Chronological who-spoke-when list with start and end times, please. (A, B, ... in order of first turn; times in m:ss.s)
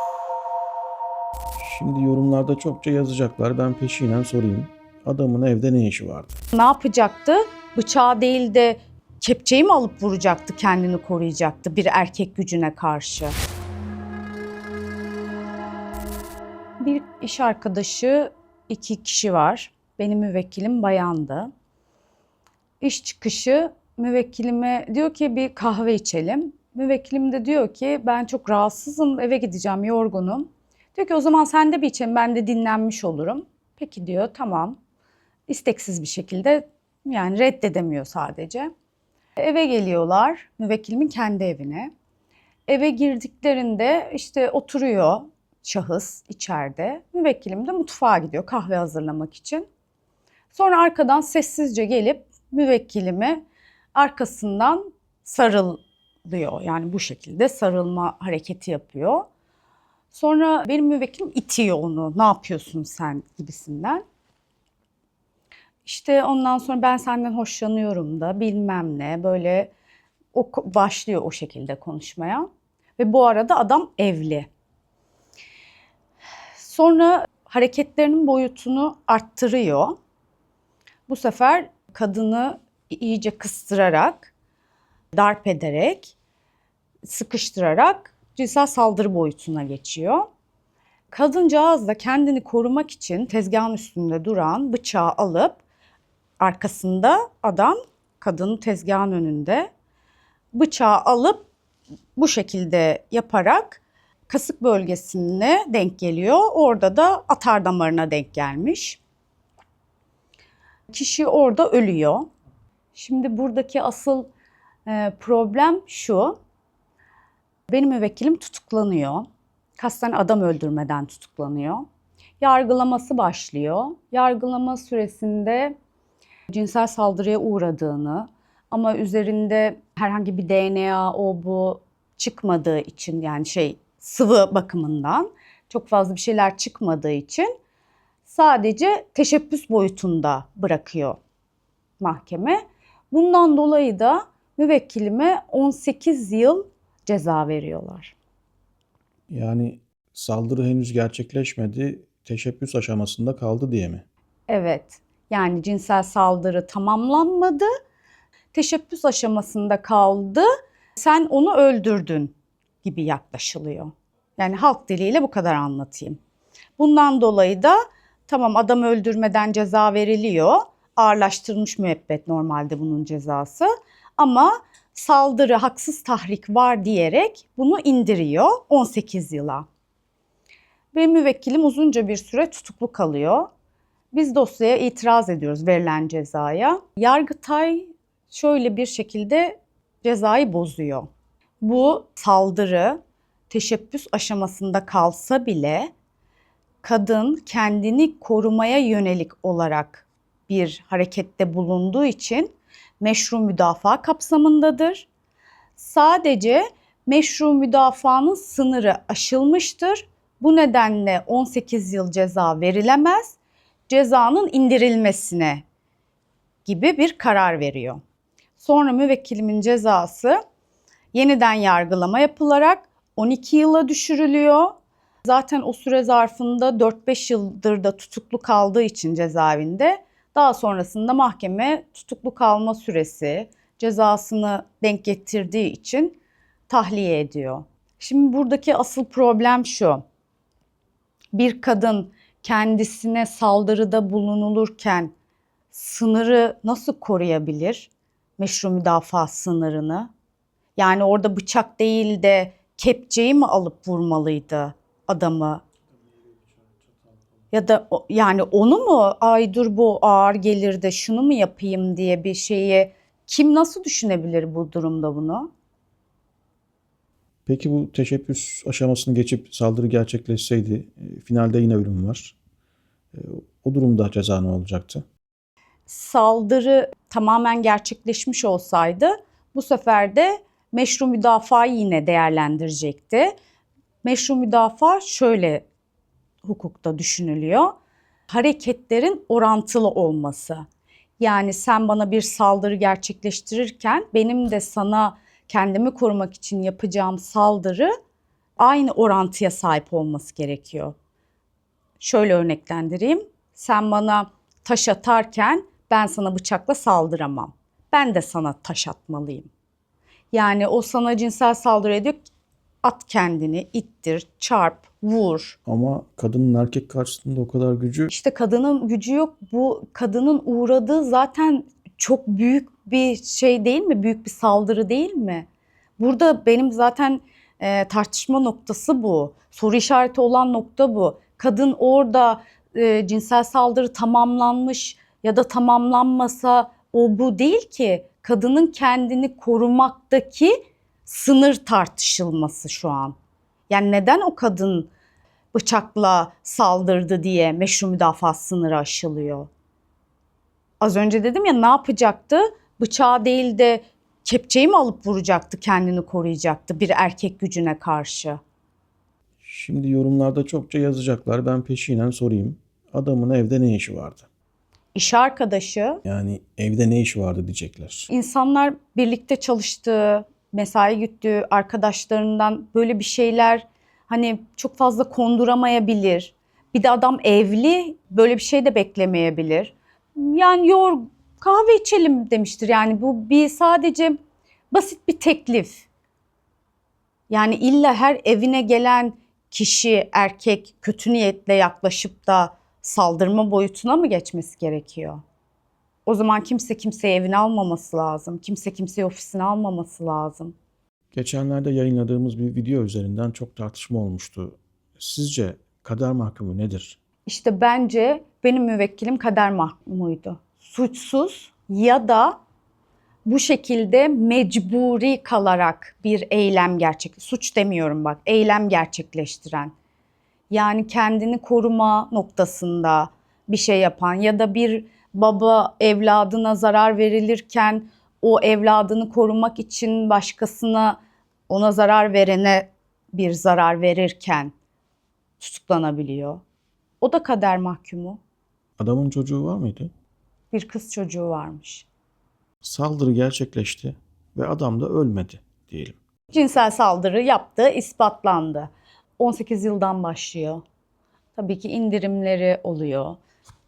0:01.6-0:06.3 A
0:06.5-0:13.3 B
0:16.8-0:21.5 B
0:22.8-0:34.8 B
0:35.5-0:38.7 B
0:39.4-0:41.9 B
0:42.7-0:49.6 B
0:50.5-0:53.4 B
0:54.0-0:59.2 B
1:00.1-1:04.0 B
1:05.8-1:09.7 B
1:10.3-1:12.5 B
1:13.0-1:14.5 B
1:16.6-1:20.0 B
1:21.1-1:24.3 B
1:25.1-1:26.1 B
1:27.0-1:30.3 B
1:31.1-1:35.6 B
1:36.4-1:39.7 B
1:40.5-1:41.5 B
1:42.2-1:49.0 B
1:50.9-1:52.3 B
1:52.9-1:54.3 B
1:54.9-1:56.4 B
1:57.7-1:59.3 B
1:59.8-2:01.8 B
2:02.4-2:05.7 B
2:06.5-2:17.5 B
2:18.2-2:21.2 B
2:22.0-2:28.2 B
2:29.3-2:34.0 A
2:34.5-2:37.7 B
2:38.5-2:46.2 B
2:46.8-2:59.6 B
3:00.9-3:03.5 B
3:04.1-3:11.1 B
3:11.6-3:13.0 B
3:13.5-3:15.9 B
3:16.8-3:25.1 B
3:25.8-3:33.4 B
3:33.9-3:35.6 B
3:36.6-3:38.0 B
3:38.6-3:40.4 B
3:41.1-3:44.7 B
3:45.2-3:56.2 B
3:56.7-4:00.0 B
4:01.3-4:05.1 B
4:05.7-4:10.1 B
4:10.8-4:15.6 B
4:17.5-4:25.5 B
4:27.5-4:32.4 A
4:33.1-4:35.0 A
4:35.9-4:43.4 B
4:44.0-4:45.6 B
4:46.4-4:47.7 B
4:48.3-4:50.6 B
4:51.2-4:57.9 B
4:58.6-5:00.9 B
5:02.0-5:09.5 B
5:10.3-5:12.2 B
5:12.8-5:15.6 B
5:15.7-5:18.1 A
5:18.1-5:25.5 B
5:26.0-5:40.6 B
5:41.1-5:43.2 B
5:43.7-5:44.9 B
5:45.5-5:49.5 B
5:50.8-5:58.4 B
5:59.4-6:04.3 A
6:04.9-6:06.0 B
6:06.0-6:08.1 A
6:08.1-6:24.2 B
6:24.7-6:25.9 B
6:27.3-6:35.2 B
6:36.1-6:40.5 B
6:41.1-6:47.0 A
6:47.2-6:52.4 B
6:53.2-6:59.7 B
7:00.5-7:14.5 B
7:15.4-7:16.4 B
7:17.0-7:18.2 B
7:18.8-7:19.9 A
7:20.5-7:21.9 B
7:22.6-7:26.0 A
7:26.3-7:30.6 B
7:31.4-7:33.2 B